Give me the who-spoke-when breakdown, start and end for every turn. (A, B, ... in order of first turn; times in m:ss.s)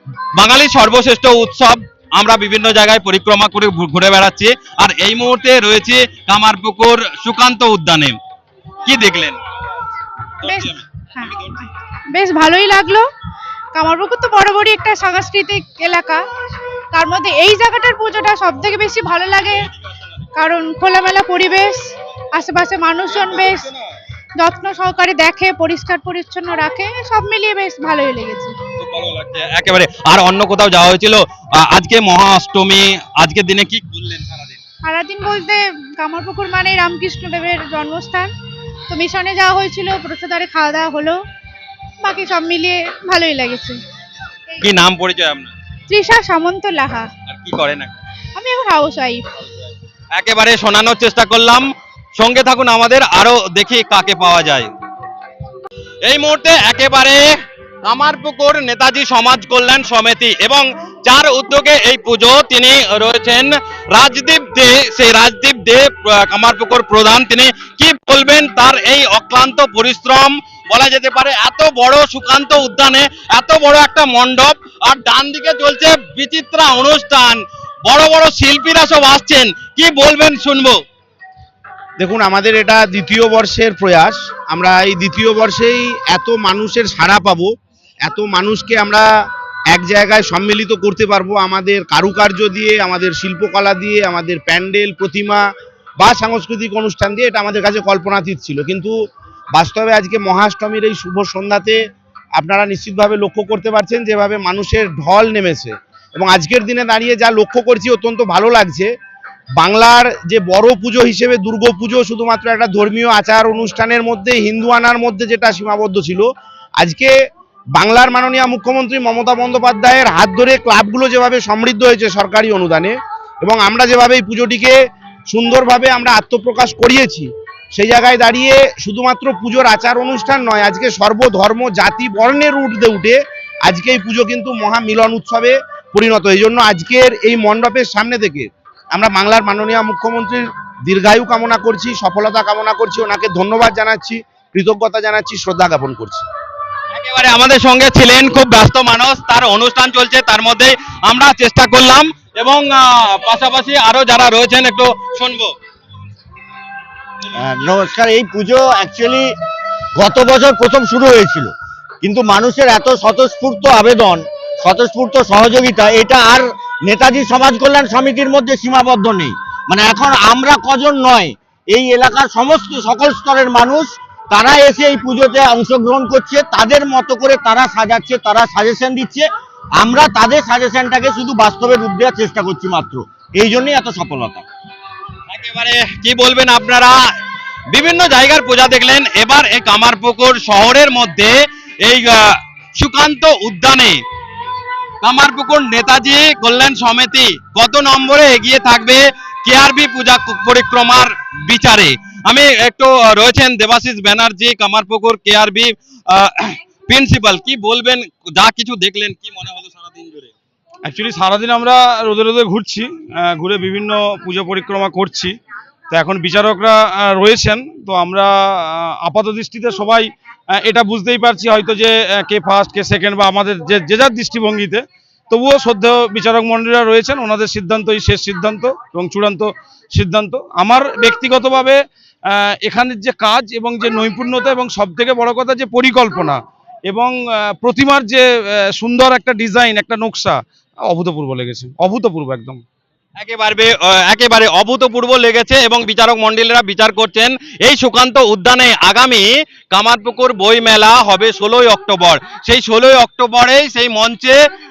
0:00.3-0:08.2 A
0:08.9-0:09.4 A
0:10.4-0:11.6 A
0:10.4-0:11.5 B
0:12.1-0:13.0 B
0:13.8-0:16.2 B
0:16.9-0:19.7 B
0:20.3-0:23.7 B
0:23.1-0:23.7 A
0:24.4-0:28.6 B
0:28.8-0:34.6 A
0:34.8-0:38.3 B
0:38.9-0:41.2 B
0:42.0-0:43.8 B
0:44.6-0:45.5 A
0:45.9-0:47.1 B
0:47.3-0:47.9 A
0:48.4-0:49.2 B
0:50.1-0:54.7 A
0:56.0-0:57.3 A
0:57.8-1:20.8 A
1:22.0-1:27.5 C
1:28.0-1:29.0 C
1:29.7-1:35.4 C
1:36.0-1:38.9 C
1:39.5-1:41.8 C
1:42.4-1:48.9 C
1:49.6-1:56.3 C
1:56.8-1:57.1 C
1:57.8-2:04.8 C
2:05.3-2:26.2 C
2:26.9-2:35.5 A
2:37.4-2:39.3 D
2:40.0-2:59.3 D
2:59.8-3:04.5 D
3:05.3-3:07.0 A
3:07.7-3:14.0 A
3:15.0-3:30.3 A
3:30.8-3:35.3 E
3:35.9-3:58.2 E
3:58.8-4:02.6 E
4:03.2-4:14.4 A